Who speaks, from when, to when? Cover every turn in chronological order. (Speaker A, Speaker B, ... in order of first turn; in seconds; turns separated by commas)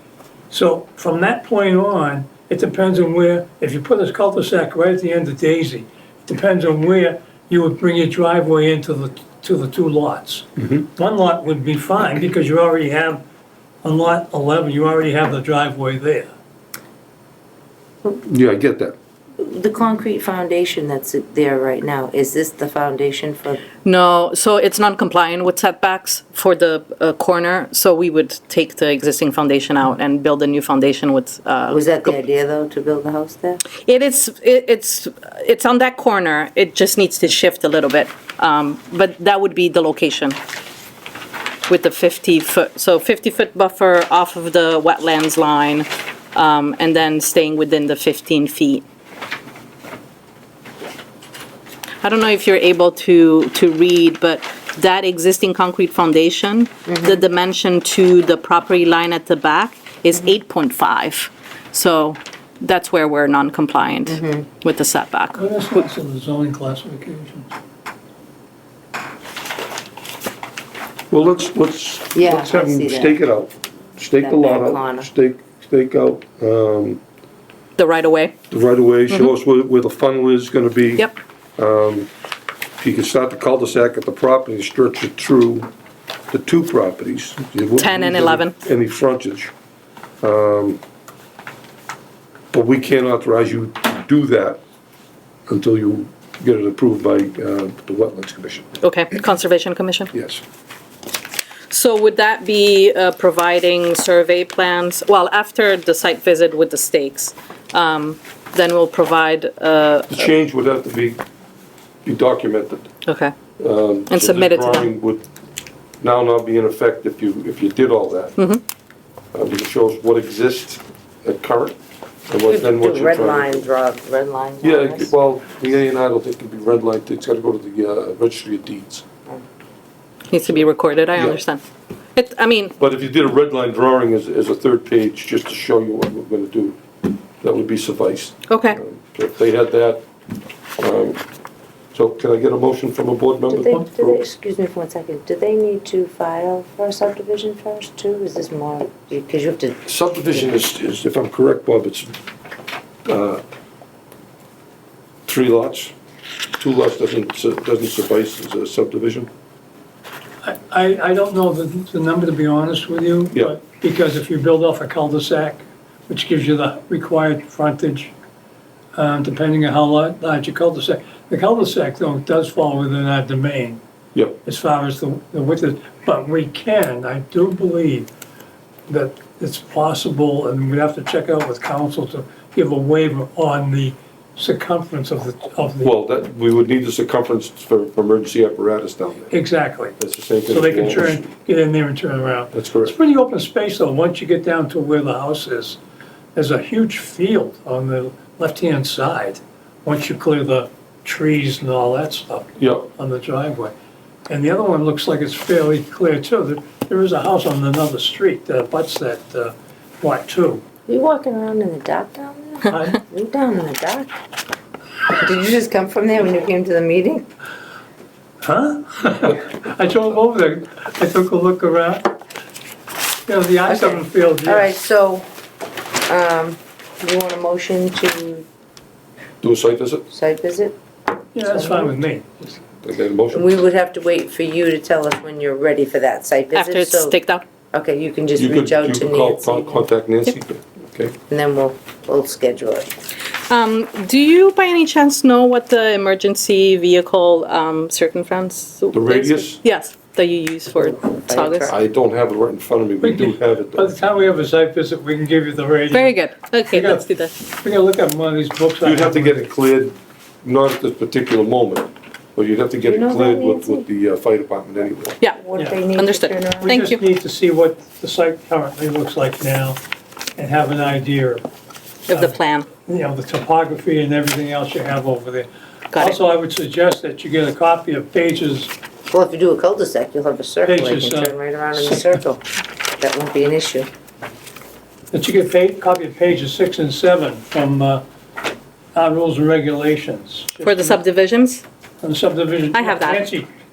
Speaker A: 0.5-13.2, Speaker A: 13.8-16.3, Speaker B: 18.2-19.0, Speaker C: 19.4-23.7, Speaker D: 23.8-32.1, Speaker C: 31.7-33.7, Speaker D: 33.8-40.4, Speaker D: 41.7-48.9, Speaker D: 52.0-65.5, Speaker C: 56.9-57.2, Speaker C: 64.1-64.5, Speaker A: 65.3-67.5, Speaker B: 71.1-77.0, Speaker C: 72.1-73.2, Speaker C: 74.2-75.1, Speaker D: 77.8-78.4, Speaker B: 78.5-82.1, Speaker B: 82.8-85.7, Speaker B: 86.3-89.5, Speaker D: 87.8-88.6, Speaker B: 90.2-90.8, Speaker B: 92.5-94.6, Speaker B: 95.5-98.7, Speaker D: 98.8-100.1, Speaker B: 100.1-100.4, Speaker D: 101.7-110.3, Speaker B: 110.1-111.2, Speaker B: 112.0-112.9, Speaker D: 113.1-113.3, Speaker B: 113.6-115.2, Speaker D: 114.1-114.9, Speaker B: 116.0-118.4, Speaker D: 118.4-118.6, Speaker B: 119.3-123.7, Speaker C: 122.5-125.1, Speaker B: 124.6-129.0, Speaker D: 130.3-131.6, Speaker B: 131.2-131.4, Speaker D: 132.2-132.8, Speaker B: 132.8-136.8, Speaker B: 137.4-140.1, Speaker D: 138.5-138.8, Speaker B: 140.8-141.2, Speaker B: 141.9-144.2, Speaker C: 143.5-150.6, Speaker B: 149.8-152.2, Speaker B: 153.1-153.4, Speaker B: 155.3-155.9, Speaker B: 156.6-159.3, Speaker A: 160.4-168.1, Speaker A: 168.9-173.8, Speaker A: 174.4-178.1, Speaker A: 178.9-185.9, Speaker B: 185.8-189.3, Speaker A: 189.3-195.8, Speaker B: 190.0-191.3, Speaker B: 192.5-192.9, Speaker A: 196.3-203.8, Speaker B: 202.6-202.9, Speaker A: 204.3-210.6, Speaker C: 210.9-214.1, Speaker A: 212.7-213.0, Speaker C: 215.1-217.2, Speaker A: 218.4-222.2, Speaker A: 223.3-224.7, Speaker C: 223.7-225.3, Speaker C: 226.1-228.5, Speaker B: 229.4-230.1, Speaker C: 230.1-230.8, Speaker A: 231.3-232.6, Speaker C: 231.4-231.9, Speaker B: 232.8-233.5, Speaker C: 233.3-237.2, Speaker D: 236.5-237.4, Speaker C: 237.7-239.9, Speaker B: 238.4-241.2, Speaker C: 241.3-242.9, Speaker D: 243.5-251.7, Speaker B: 248.9-249.6, Speaker C: 250.8-251.8, Speaker B: 251.7-253.9, Speaker A: 253.0-259.4, Speaker D: 255.9-257.3, Speaker B: 258.8-265.2, Speaker C: 262.8-263.9, Speaker C: 265.3-266.8, Speaker D: 265.9-267.0, Speaker A: 266.6-269.8, Speaker A: 270.4-271.4, Speaker A: 272.1-278.7, Speaker D: 272.1-272.7, Speaker D: 275.9-276.2, Speaker C: 279.1-282.4, Speaker A: 280.6-282.2, Speaker C: 283.0-283.9, Speaker A: 285.1-288.0, Speaker A: 288.9-291.0, Speaker D: 290.6-291.6, Speaker A: 292.0-293.5, Speaker D: 292.7-293.3